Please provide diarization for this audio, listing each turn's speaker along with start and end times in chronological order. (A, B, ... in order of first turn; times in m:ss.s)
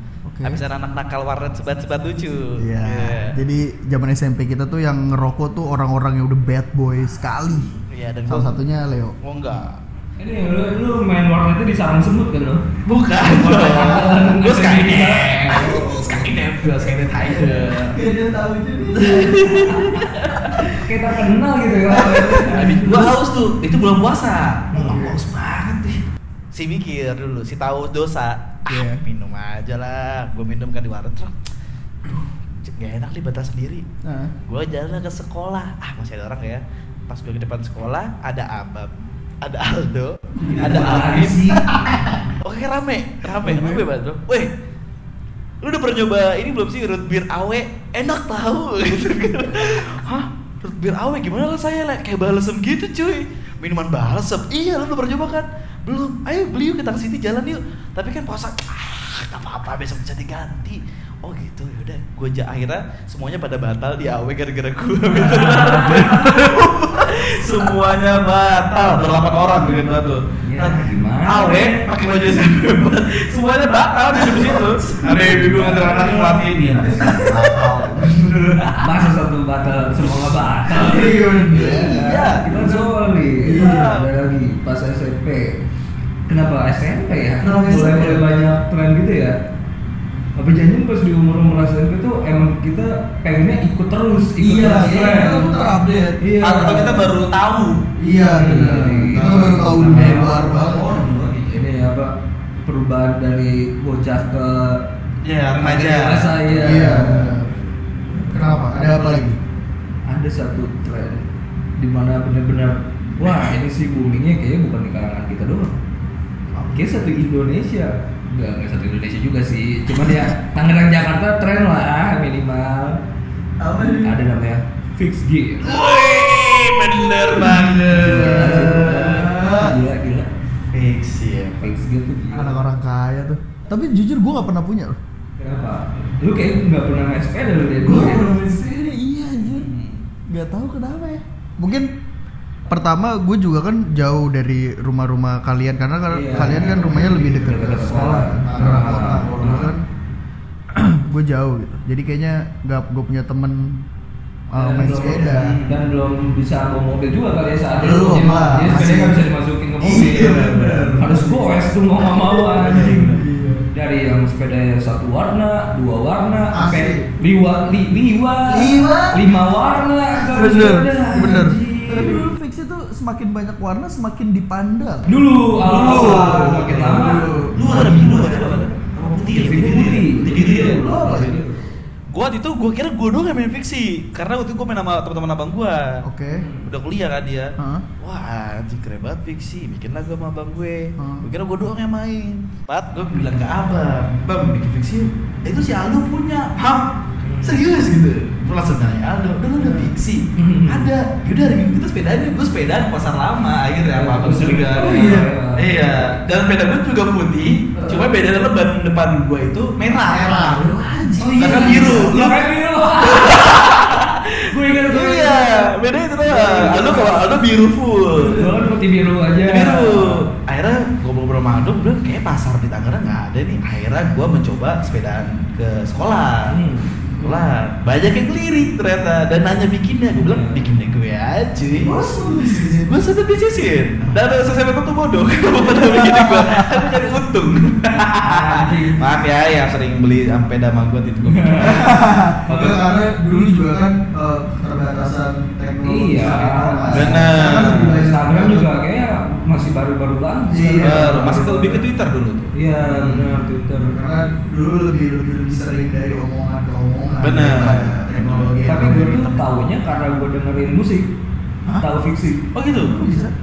0:00.2-0:00.6 A
0:00.4-0:03.4 B
0:02.6-0:09.2 A
0:07.8-0:08.6 B
0:09.2-0:09.8 B
0:10.2-0:16.2 C
0:12.8-0:18.0 B
0:17.3-0:19.8 A
0:19.0-0:20.8 B
0:19.6-0:20.0 C
0:20.7-0:23.1 C
0:22.0-0:22.4 A
0:22.1-0:26.0 B
0:24.7-0:25.0 C
0:24.8-0:25.2 A
0:26.5-0:31.3 B
0:28.7-0:29.0 A
0:32.0-0:33.8 B
0:34.0-0:34.3 A
0:34.4-0:41.6 B
0:40.4-0:41.2 A
0:40.4-0:41.7 C
0:42.4-0:44.5 B
0:43.4-0:43.8 A
0:45.6-1:18.8 B
1:05.1-1:06.2 C
1:06.0-1:06.3 A
1:10.4-1:11.8 C
1:14.4-1:14.9 A
1:15.0-1:17.2 C
1:16.9-1:18.6 A
1:18.8-1:25.6 C
1:20.7-1:22.0 A
1:21.5-1:22.9 B
1:23.4-1:23.9 A
1:23.4-1:24.1 B
1:26.3-1:29.4 C
1:27.4-1:28.4 A
1:30.4-1:35.5 C
1:34.4-1:36.2 A
1:36.2-1:37.1 C
1:36.4-1:37.8 B
1:38.0-1:41.2 A
1:38.2-1:44.8 C
1:38.7-1:41.6 B
1:45.2-1:46.8 B
1:45.6-1:47.3 C
1:46.6-1:47.5 A
1:48.1-1:49.4 A
1:50.1-1:51.2 C
1:51.8-1:55.8 C
1:56.5-1:56.8 A
1:56.7-2:03.0 C
2:03.6-2:04.2 A
2:03.8-2:05.8 C
2:05.6-2:09.3 B
2:07.3-2:09.8 A
2:07.9-2:10.3 C
2:10.7-2:11.7 B
2:11.6-2:12.6 C
2:12.3-2:15.0 A
2:15.4-2:18.3 C
2:17.8-2:19.7 A
2:19.5-2:20.0 B
2:20.3-2:21.9 A
2:22.7-2:29.8 A
2:26.1-2:29.7 C
2:30.7-2:33.9 A
2:34.5-2:35.6 A
2:34.5-2:43.1 C
2:35.3-2:35.8 B
2:37.7-2:39.2 A
2:39.8-2:43.6 A
2:42.6-2:43.2 B
2:43.7-2:52.2 C
2:46.5-2:47.1 A
2:48.5-2:49.3 A
2:50.2-2:59.6 A
2:55.1-2:57.2 C
2:55.7-3:01.4 B
2:59.3-3:01.6 C
3:00.3-3:01.4 A
3:02.1-3:06.0 B
3:06.0-3:06.4 A
3:06.3-3:06.7 C
3:06.6-3:16.8 B
3:07.6-3:07.8 A
3:11.0-3:11.2 A
3:17.2-3:17.6 C
3:17.4-3:30.8 B
3:19.6-3:19.9 A
3:20.4-3:20.9 C
3:23.9-3:26.2 C
3:24.8-3:25.3 A
3:27.7-3:28.1 A
3:30.0-3:32.2 A
3:31.2-3:35.7 C
3:31.4-3:32.4 B
3:33.0-3:38.5 B
3:36.2-3:37.3 C
3:38.2-3:40.2 C
3:39.4-3:46.5 B
3:46.5-3:47.0 C
3:47.1-3:47.4 A
3:47.2-3:52.0 B
3:50.2-3:50.8 C
3:51.8-3:53.0 A
3:52.8-4:01.9 B
3:55.7-3:56.8 A
3:58.2-3:59.0 C
4:01.3-4:01.9 C
4:01.6-4:08.7 A
4:02.5-4:02.8 C
4:05.8-4:11.8 C
4:06.9-4:08.0 B
4:10.5-4:11.5 A
4:10.8-4:13.3 B
4:12.5-4:14.0 C
4:13.7-4:19.4 A
4:17.2-4:18.6 B
4:18.6-4:21.1 C
4:21.8-4:22.4 C
4:22.5-4:23.0 B
4:22.7-4:23.3 A